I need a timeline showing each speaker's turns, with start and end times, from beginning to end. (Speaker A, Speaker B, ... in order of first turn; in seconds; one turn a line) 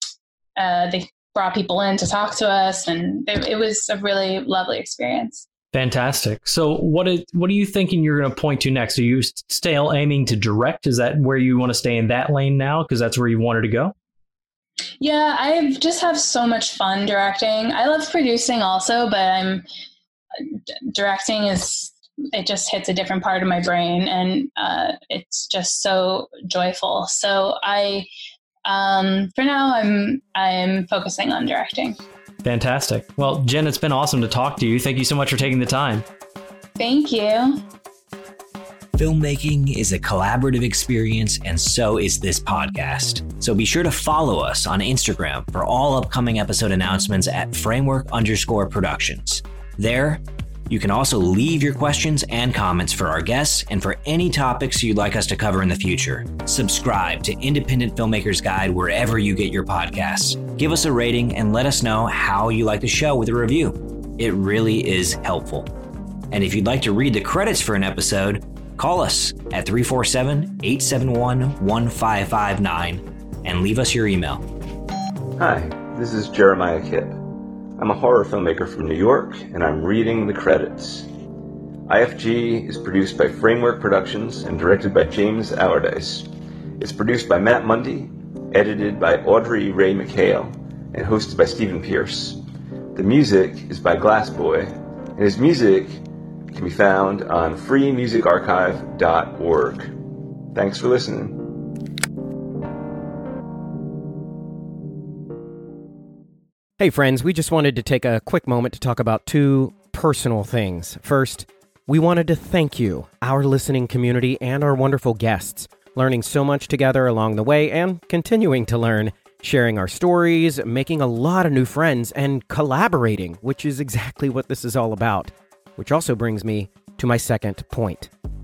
Speaker A: 0.6-5.5
Speaker B: 5.7-13.9
Speaker A: 15.0-19.7
Speaker A: 20.9-28.1
Speaker A: 28.6-32.0
Speaker B: 32.4-36.0
Speaker A: 36.8-37.6
Speaker C: 39.0-65.7
Speaker C: 66.3-74.5
Speaker D: 75.4-77.2
Speaker D: 77.8-81.1
Speaker D: 81.9-86.3
Speaker D: 86.8-92.4
Speaker D: 92.9-100.0
Speaker D: 100.5-101.4
Speaker E: 106.8-128.1